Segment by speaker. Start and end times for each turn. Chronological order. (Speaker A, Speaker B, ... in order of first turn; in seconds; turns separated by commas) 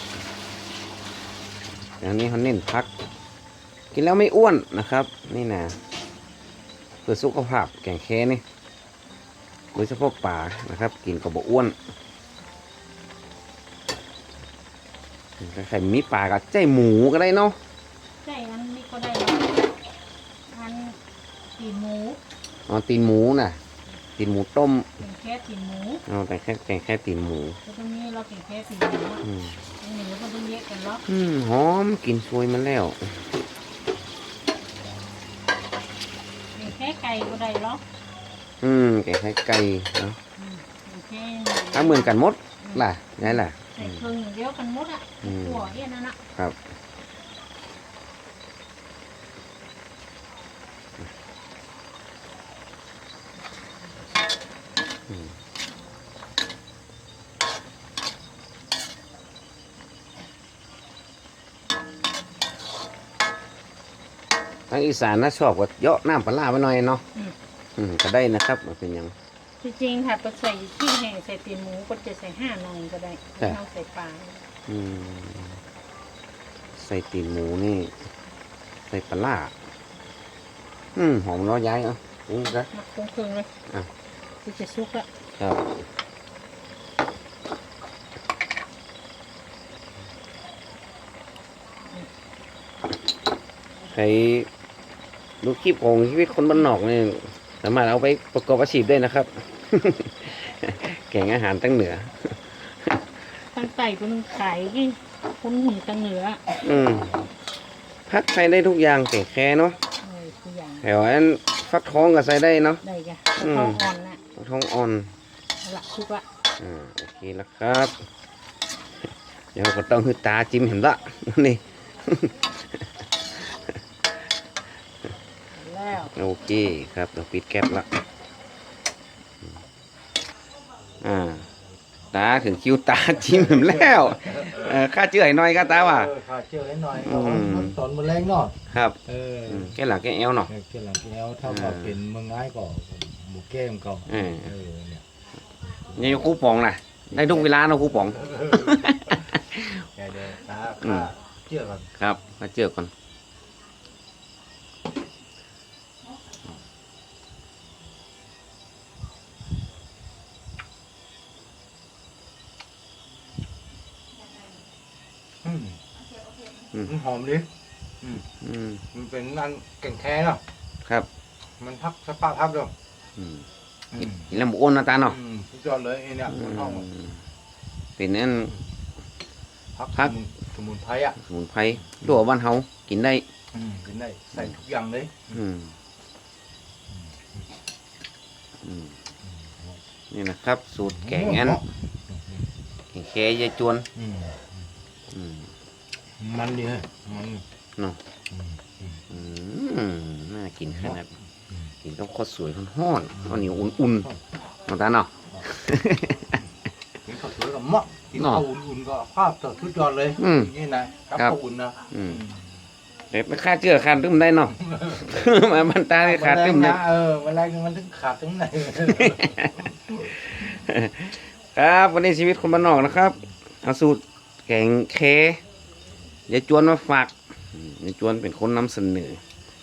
Speaker A: 2.0-2.9, Speaker A: 3.9-5.8, Speaker A: 7.0-8.4, Speaker A: 9.7-11.8, Speaker A: 15.4-17.6, Speaker B: 18.2-19.8, Speaker B: 20.5-21.0, Speaker B: 21.6-22.2, Speaker A: 22.7-23.6, Speaker A: 24.2-24.9, Speaker B: 25.0-26.0, Speaker A: 26.1-27.6, Speaker B: 27.6-29.2, Speaker A: 29.2-29.6, Speaker B: 29.8-31.0, Speaker A: 31.1-33.2, Speaker B: 36.5-37.8, Speaker A: 38.6-40.2, Speaker B: 40.4-46.2, Speaker A: 41.7-44.1, Speaker A: 45.2-45.7, Speaker A: 64.7-67.0, Speaker A: 67.8-69.1, Speaker B: 69.6-74.4, Speaker A: 74.7-75.6, Speaker A: 76.8-78.0, Speaker A: 78.9-79.5, Speaker A: 80.9-82.7, Speaker B: 82.6-83.5, Speaker B: 84.4-85.1, Speaker A: 85.4-85.7, Speaker A: 93.8-94.5, Speaker A: 95.4-103.0, Speaker B: 103.5-106.6, Speaker A: 106.6-107.1, Speaker A: 108.1-109.8, Speaker B: 110.0-110.9, Speaker A: 110.8-112.8, Speaker B: 112.8-114.2, Speaker A: 113.4-113.8, Speaker A: 114.3-115.1, Speaker B: 115.6-116.2, Speaker A: 116.6-117.9, Speaker A: 119.5-122.5, Speaker B: 125.5-126.1, Speaker A: 126.1-127.9, Speaker A: 131.0-131.5, Speaker A: 132.1-136.1, Speaker C: 133.3-134.7, Speaker C: 135.6-139.7, Speaker A: 137.0-137.8, Speaker A: 138.7-140.5, Speaker C: 140.5-145.0, Speaker A: 141.4-142.0, Speaker A: 144.1-144.5, Speaker A: 145.9-149.8, Speaker C: 147.2-147.5, Speaker C: 148.0-148.8, Speaker C: 149.9-151.9, Speaker A: 150.8-151.1, Speaker A: 152.0-152.9, Speaker C: 165.4-165.8, Speaker C: 166.9-167.5, Speaker A: 168.4-168.8, Speaker C: 168.9-170.4, Speaker C: 171.6-172.7, Speaker A: 173.2-173.4, Speaker C: 173.9-174.3, Speaker A: 174.0-175.2, Speaker C: 175.1-176.9, Speaker A: 176.3-177.2, Speaker A: 178.0-178.5, Speaker C: 179.8-181.2, Speaker A: 181.2-183.2, Speaker C: 183.5-185.3, Speaker A: 185.3-185.7, Speaker A: 188.6-188.9, Speaker A: 190.1-191.6, Speaker C: 191.0-192.3, Speaker A: 192.9-193.9, Speaker C: 194.0-194.5, Speaker A: 195.1-195.5, Speaker C: 196.2-197.4, Speaker C: 198.3-199.0, Speaker A: 199.1-201.1, Speaker A: 201.8-204.1, Speaker C: 203.3-204.2, Speaker A: 204.7-206.4, Speaker C: 207.0-212.5, Speaker A: 208.2-208.4, Speaker A: 210.2-210.5, Speaker A: 211.9-212.2, Speaker A: 213.1-216.8, Speaker C: 214.7-215.1, Speaker C: 216.0-219.4, Speaker A: 218.8-225.4, Speaker A: 226.3-229.2